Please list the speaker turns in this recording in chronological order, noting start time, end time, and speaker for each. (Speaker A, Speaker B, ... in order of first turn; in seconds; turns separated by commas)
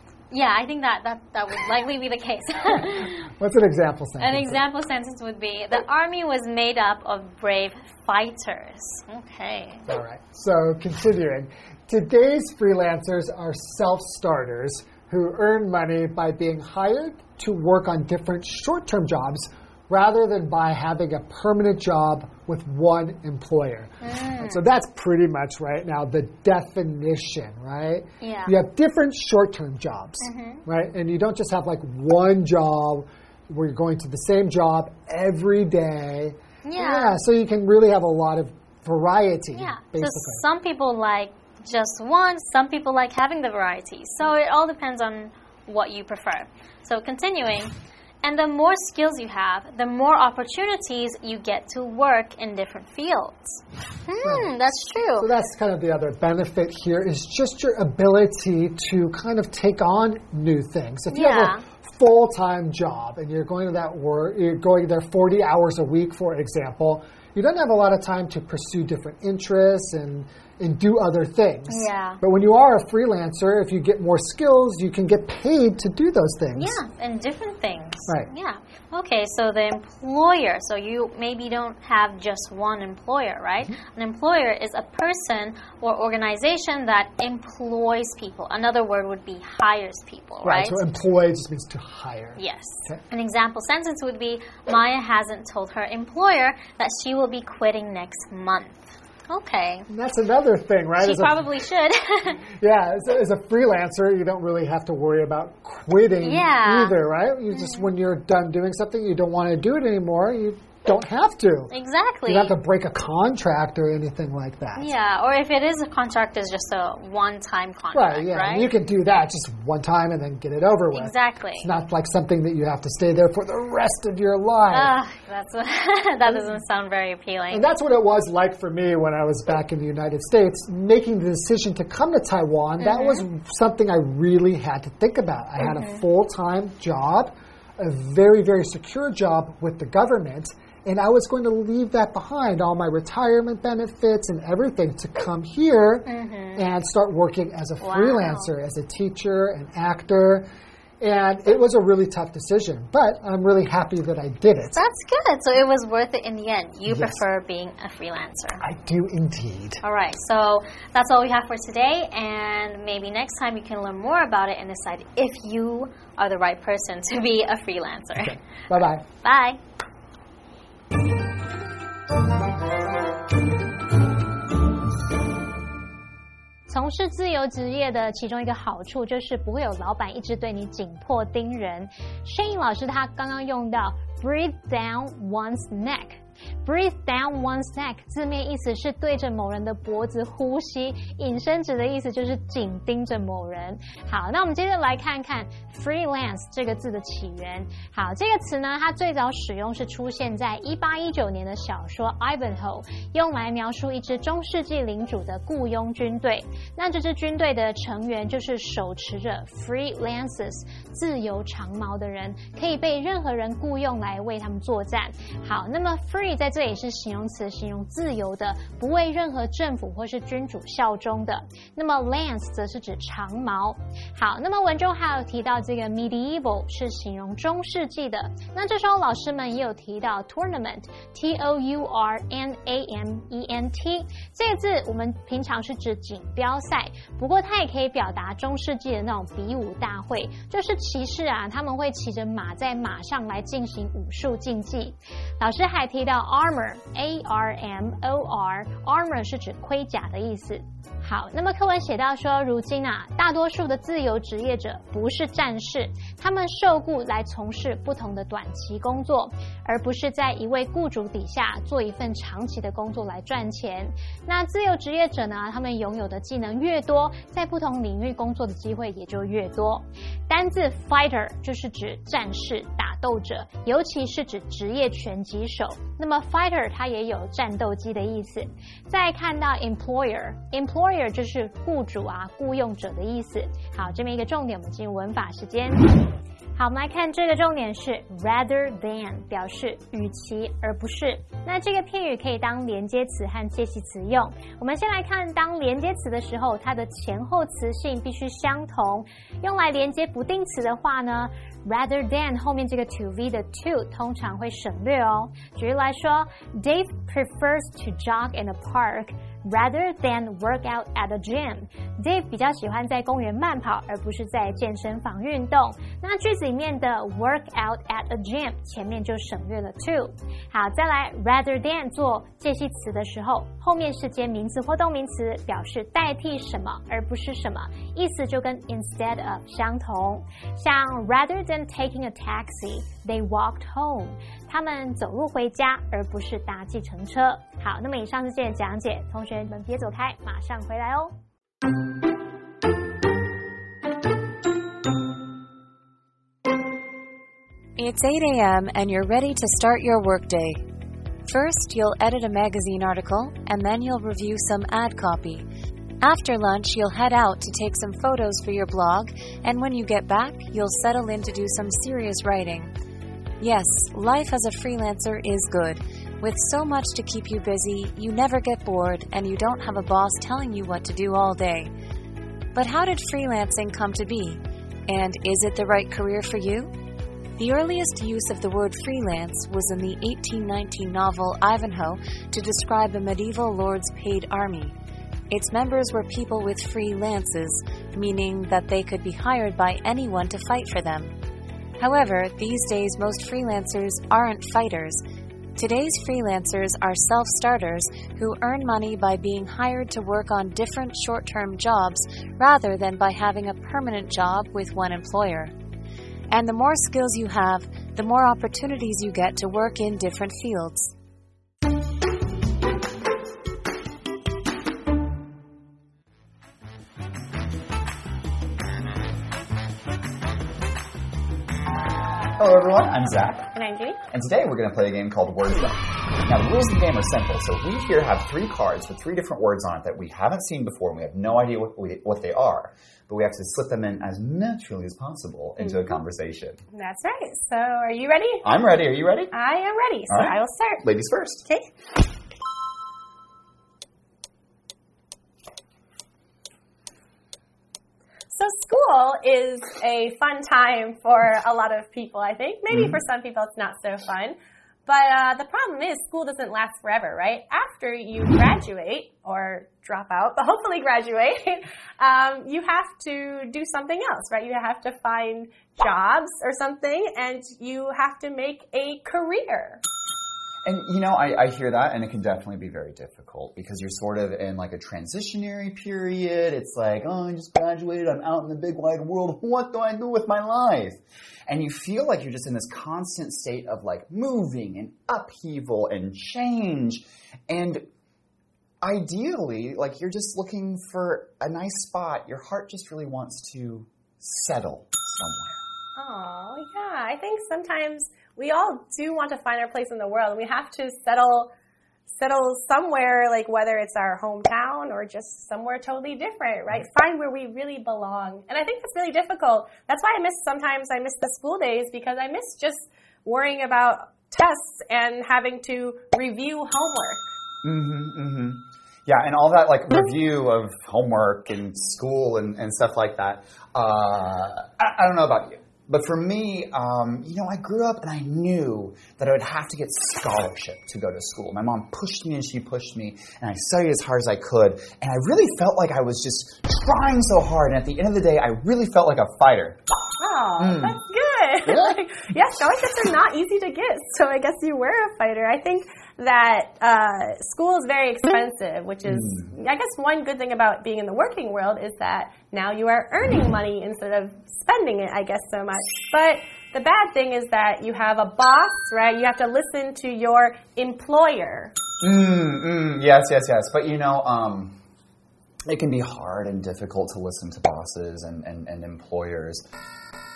Speaker A: 0.3-3.3, Speaker B: 2.8-4.6, Speaker A: 4.2-9.9, Speaker B: 9.9-40.4, Speaker A: 24.0-24.6, Speaker A: 28.2-28.6, Speaker A: 30.2-30.6, Speaker A: 36.6-37.2, Speaker A: 39.5-55.3, Speaker B: 54.2-54.5, Speaker B: 55.2-76.8, Speaker A: 61.1-61.6, Speaker A: 71.7-72.2, Speaker A: 76.6-90.8, Speaker B: 90.4-93.0, Speaker A: 92.4-99.9, Speaker B: 99.9-101.5, Speaker A: 101.0-102.5, Speaker B: 102.5-111.7, Speaker A: 106.2-107.0, Speaker A: 107.5-107.9, Speaker A: 111.7-112.6, Speaker B: 112.2-114.9, Speaker A: 114.8-118.7, Speaker B: 117.9-125.0, Speaker A: 120.9-121.7, Speaker A: 124.7-127.7, Speaker B: 126.3-126.6, Speaker B: 127.5-150.5, Speaker A: 132.8-133.2, Speaker A: 135.6-136.0, Speaker A: 146.1-146.7, Speaker A: 147.8-148.5, Speaker B: 151.0-154.8, Speaker A: 154.8-158.6, Speaker B: 156.9-157.2, Speaker B: 158.6-159.8, Speaker A: 159.8-168.4, Speaker B: 168.2-169.0, Speaker A: 169.2-169.6, Speaker C: 176.7-285.9, Speaker C: 286.6-341.2, Speaker D: 347.8-350.6, Speaker D: 351.2-355.4, Speaker D: 356.0-362.7, Speaker D: 363.4-371.7, Speaker D: 372.5-376.7, Speaker D: 377.4-384.7, Speaker D: 385.3-391.1, Speaker D: 391.8-395.0, Speaker D: 395.5-405.5, Speaker D: 406.3-410.9, Speaker E: 422.4-423.5, Speaker F: 423.5-424.0, Speaker E: 424.1-436.6, Speaker F: 435.6-436.0, Speaker F: 436.7-438.5, Speaker E: 438.4-439.3, Speaker F: 439.3-440.8, Speaker E: 440.1-441.4, Speaker F: 448.3-469.8, Speaker E: 452.7-453.0, Speaker E: 470.6-487.9, Speaker E: 488.8-495.6, Speaker F: 496.0-501.5, Speaker F: 502.1-517.2, Speaker E: 517.6-539.8, Speaker F: 540.2-561.7, Speaker E: 540.6-541.0, Speaker E: 541.7-542.0, Speaker E: 549.1-549.5, Speaker E: 562.0-564.8, Speaker E: 565.7-569.6